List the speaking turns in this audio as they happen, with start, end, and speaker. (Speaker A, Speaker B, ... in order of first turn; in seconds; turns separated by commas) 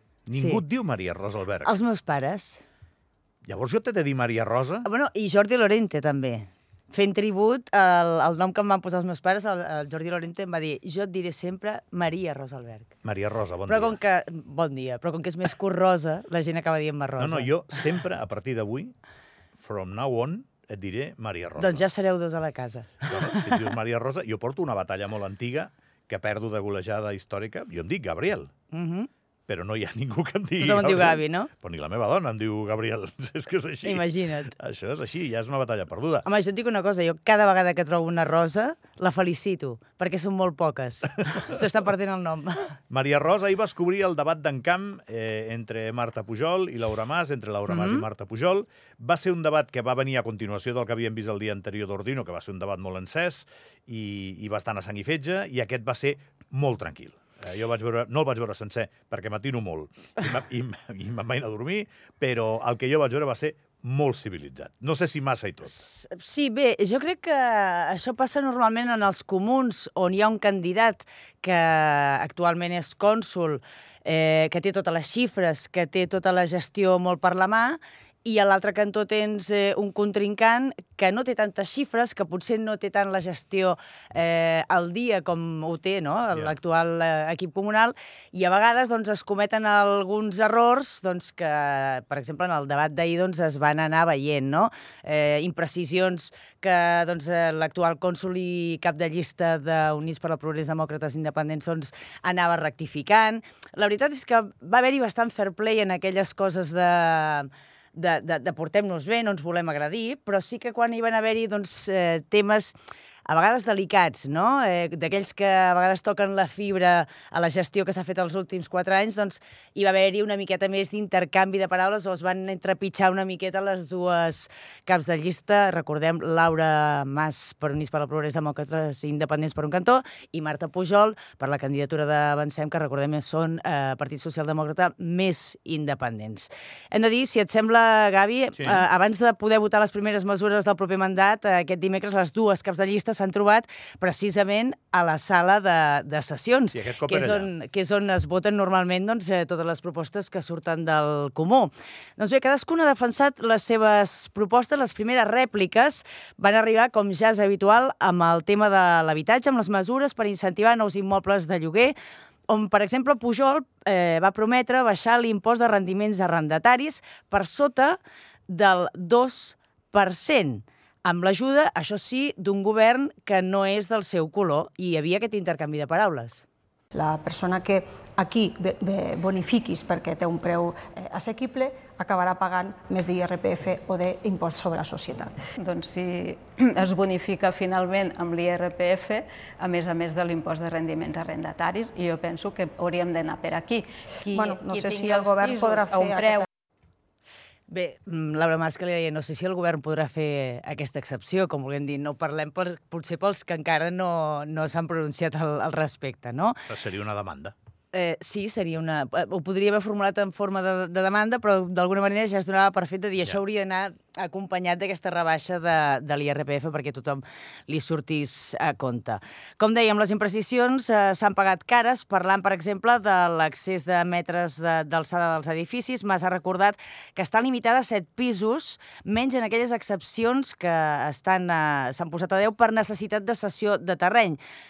Speaker A: 0.3-1.7, Speaker B: 0.3-0.6, Speaker B: 1.6-2.6, Speaker A: 3.5-4.8, Speaker B: 4.8-12.9, Speaker A: 13.0-14.0, Speaker B: 13.7-17.5, Speaker A: 17.2-18.9, Speaker A: 19.6-21.8, Speaker B: 21.6-23.7, Speaker A: 23.1-28.5, Speaker B: 28.7-29.1, Speaker A: 29.5-36.2, Speaker B: 30.6-31.5, Speaker B: 33.8-34.5, Speaker B: 36.2-42.8, Speaker A: 42.9-65.8, Speaker B: 47.7-48.0, Speaker B: 65.7-112.8, Speaker B: 113.3-161.9, Speaker A: 146.7-147.5, Speaker B: 162.5-176.4, Speaker C: 176.9-185.4, Speaker D: 185.6-196.5, Speaker C: 194.3-196.5, Speaker B: 197.7-206.6, Speaker A: 206.7-207.5, Speaker B: 207.9-234.4